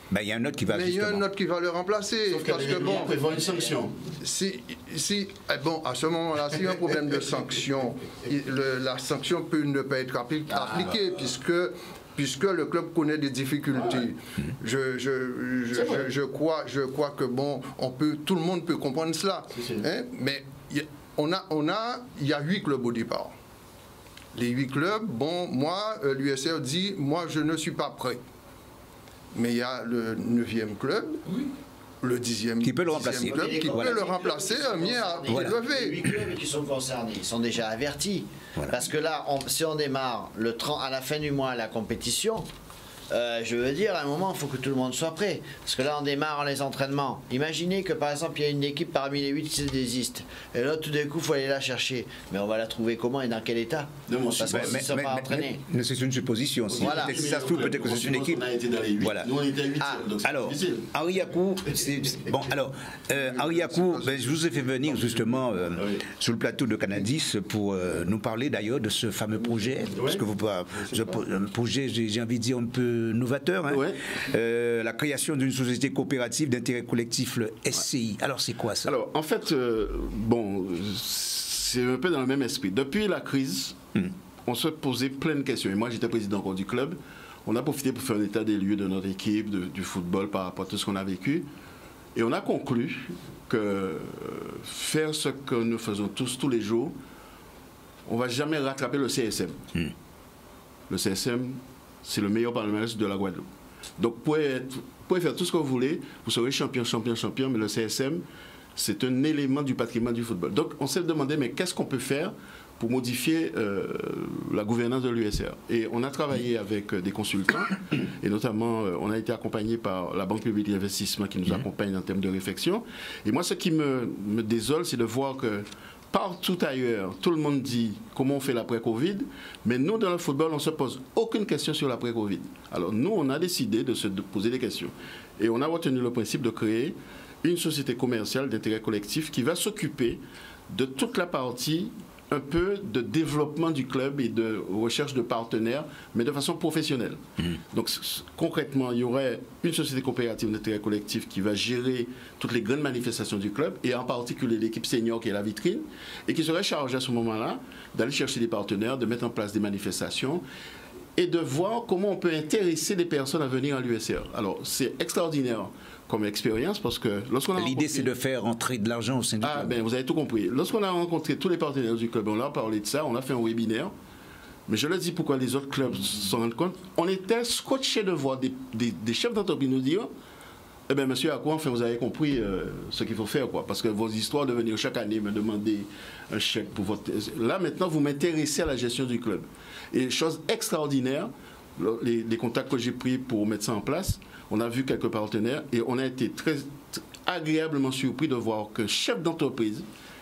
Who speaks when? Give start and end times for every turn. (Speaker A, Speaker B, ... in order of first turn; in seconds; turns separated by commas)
Speaker A: 0.1-1.2, Speaker B: 0.7-3.2, Speaker C: 2.3-4.0, Speaker D: 2.9-3.8, Speaker B: 4.2-23.3, Speaker C: 10.5-11.1, Speaker C: 13.7-14.1, Speaker C: 15.7-16.1, Speaker C: 19.5-19.8, Speaker B: 24.3-28.2, Speaker B: 29.3-31.2, Speaker B: 32.0-36.0, Speaker A: 32.6-34.0, Speaker D: 33.2-42.5, Speaker A: 35.3-35.5, Speaker A: 38.6-38.8, Speaker D: 43.1-55.6, Speaker C: 54.1-54.9, Speaker A: 54.5-58.4, Speaker C: 56.7-60.9, Speaker D: 56.8-57.2, Speaker A: 59.0-59.3, Speaker A: 60.2-78.9, Speaker B: 63.1-64.2, Speaker C: 65.8-66.0, Speaker C: 69.9-70.2, Speaker C: 73.7-74.0, Speaker C: 78.8-83.8, Speaker C: 84.5-91.5, Speaker C: 92.1-97.0, Speaker C: 98.0-99.6, Speaker C: 100.9-103.5, Speaker C: 104.0-108.2, Speaker C: 108.8-160.4, Speaker C: 161.2-168.1, Speaker A: 167.5-169.7, Speaker C: 169.4-173.9, Speaker C: 174.7-180.1, Speaker C: 180.9-199.8